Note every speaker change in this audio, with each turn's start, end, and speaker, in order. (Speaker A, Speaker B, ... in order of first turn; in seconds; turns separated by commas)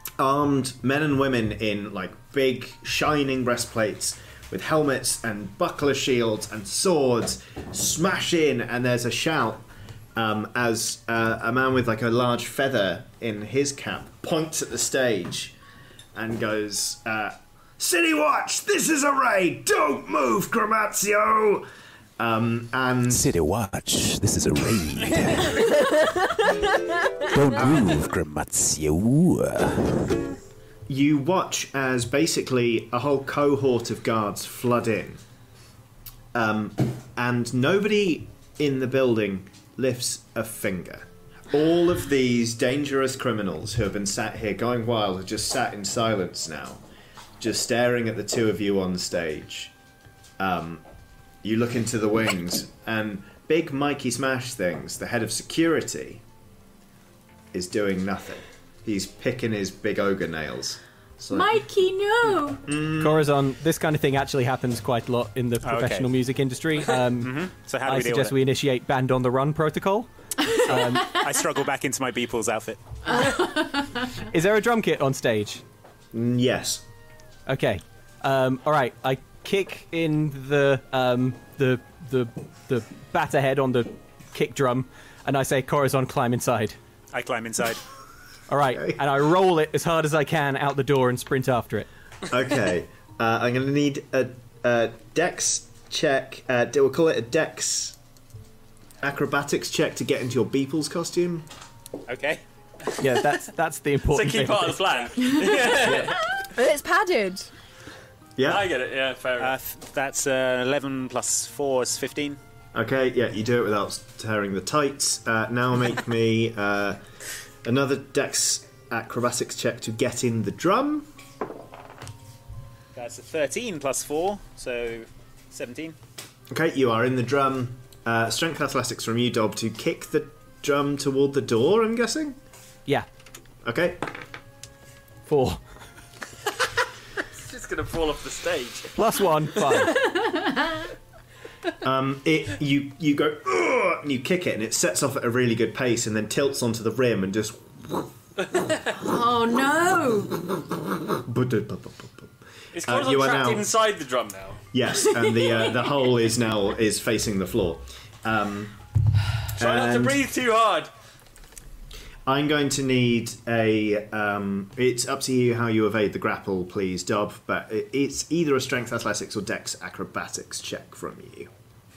Speaker A: 0.2-15.6, Speaker A: 16.1-21.7, Speaker A: 22.2-23.2, Speaker B: 23.1-26.3, Speaker B: 27.2-30.1, Speaker A: 27.5-28.0, Speaker A: 30.9-35.2, Speaker A: 36.3-46.8, Speaker A: 47.4-49.7, Speaker A: 50.4-50.8, Speaker A: 51.4-56.2, Speaker A: 57.5-61.5, Speaker C: 61.3-62.6, Speaker A: 62.6-63.3, Speaker D: 63.0-70.1, Speaker B: 65.6-66.1, Speaker B: 67.2-68.4, Speaker C: 70.5-71.2, Speaker D: 70.7-71.1, Speaker B: 71.0-72.8, Speaker C: 73.1-74.1, Speaker D: 74.3-75.6, Speaker A: 76.1-76.8, Speaker D: 77.5-86.8, Speaker B: 87.1-87.8, Speaker D: 88.5-91.9, Speaker A: 92.3-98.0, Speaker A: 99.0-101.5, Speaker B: 102.1-102.4, Speaker D: 103.0-107.5, Speaker E: 104.0-106.2, Speaker A: 108.4-108.7, Speaker E: 108.5-109.5, Speaker B: 109.4-112.4, Speaker A: 112.7-117.0, Speaker A: 117.6-121.1, Speaker B: 122.9-126.0, Speaker A: 126.5-132.4, Speaker A: 133.6-134.1, Speaker D: 135.3-135.6, Speaker E: 137.3-139.0, Speaker D: 139.0-140.1, Speaker C: 140.2-140.7, Speaker A: 141.8-148.1, Speaker C: 148.9-150.4, Speaker A: 150.8-152.3, Speaker E: 152.7-154.6, Speaker A: 152.8-153.7, Speaker A: 154.7-158.8, Speaker E: 159.6-160.9, Speaker A: 159.6-160.2, Speaker A: 162.3-171.5